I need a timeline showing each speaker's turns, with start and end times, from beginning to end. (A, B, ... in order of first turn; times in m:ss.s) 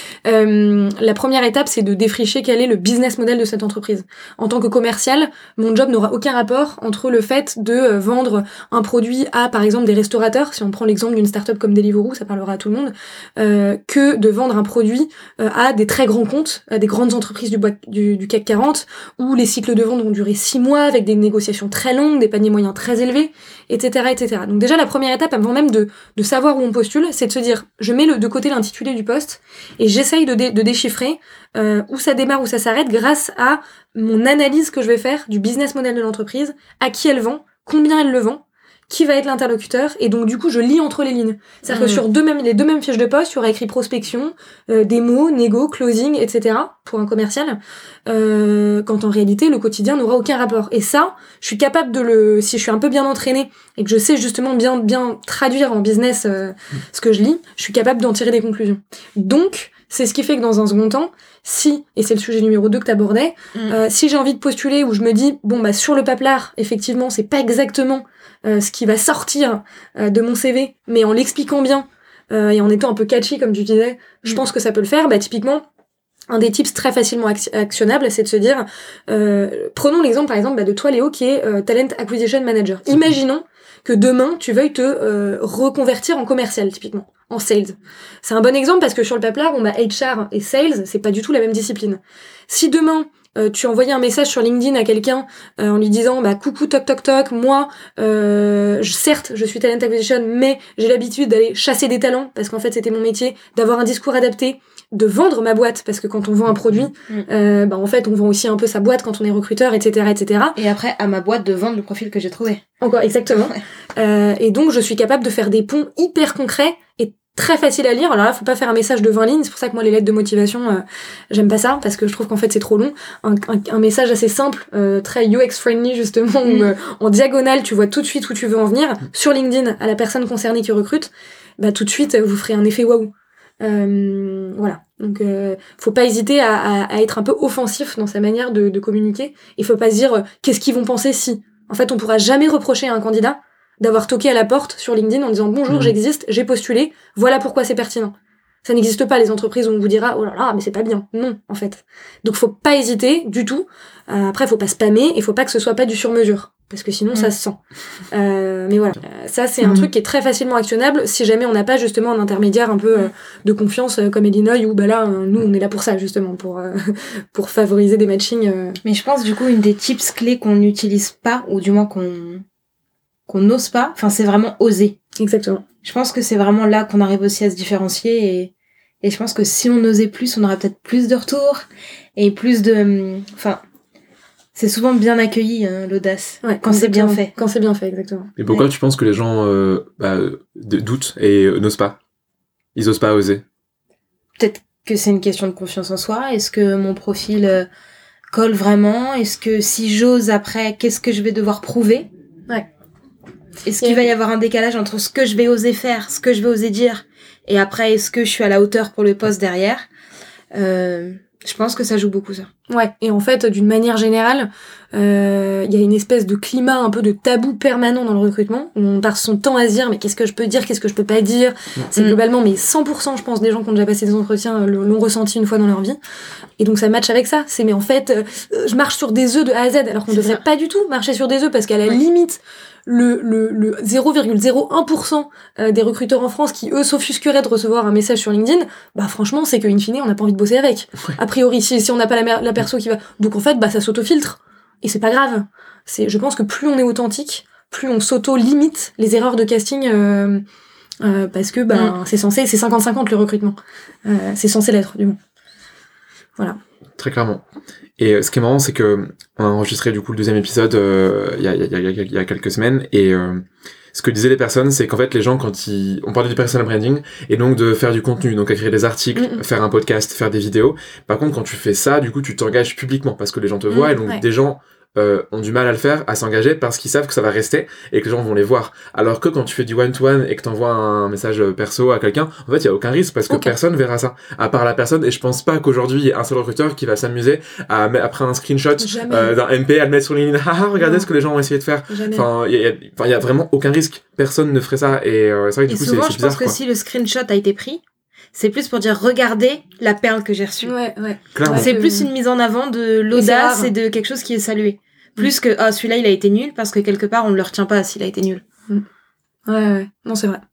0:00.2-1:15.6 A
0:41.7-0:42.0 B
1:16.3-1:50.6 A
1:50.6-1:52.6 B
1:52.8-2:28.1 A
2:06.4-2:06.7 B
2:25.7-2:25.9 C
2:28.6-2:37.6 A
2:38.1-2:48.8 A
2:48.8-2:52.4 B
2:53.3-2:55.0 B
2:55.2-2:55.6 A
2:55.8-3:01.6 B
3:02.2-3:03.6 B
3:04.5-3:07.3 B
3:06.4-3:08.3 A
3:08.4-3:12.0 C
3:12.8-3:13.4 C
3:14.4-3:17.7 B
3:18.3-3:22.1 B
3:23.6-3:29.9 B
3:30.5-3:32.5 B
3:32.7-3:46.0 A
3:46.6-4:10.4 A
3:50.1-3:50.4 B
4:11.0-4:15.2 A
4:17.0-4:17.4 C
4:18.0-4:56.6 C
4:29.2-4:29.4 A
4:48.8-4:49.3 A
4:50.8-4:51.1 A
4:51.9-4:52.3 A
4:55.7-4:57.8 B
4:58.3-5:00.7 B
5:00.6-5:02.1 A
5:01.3-5:01.7 C
5:01.5-5:08.4 B
5:03.1-5:03.7 A
5:09.5-5:10.4 A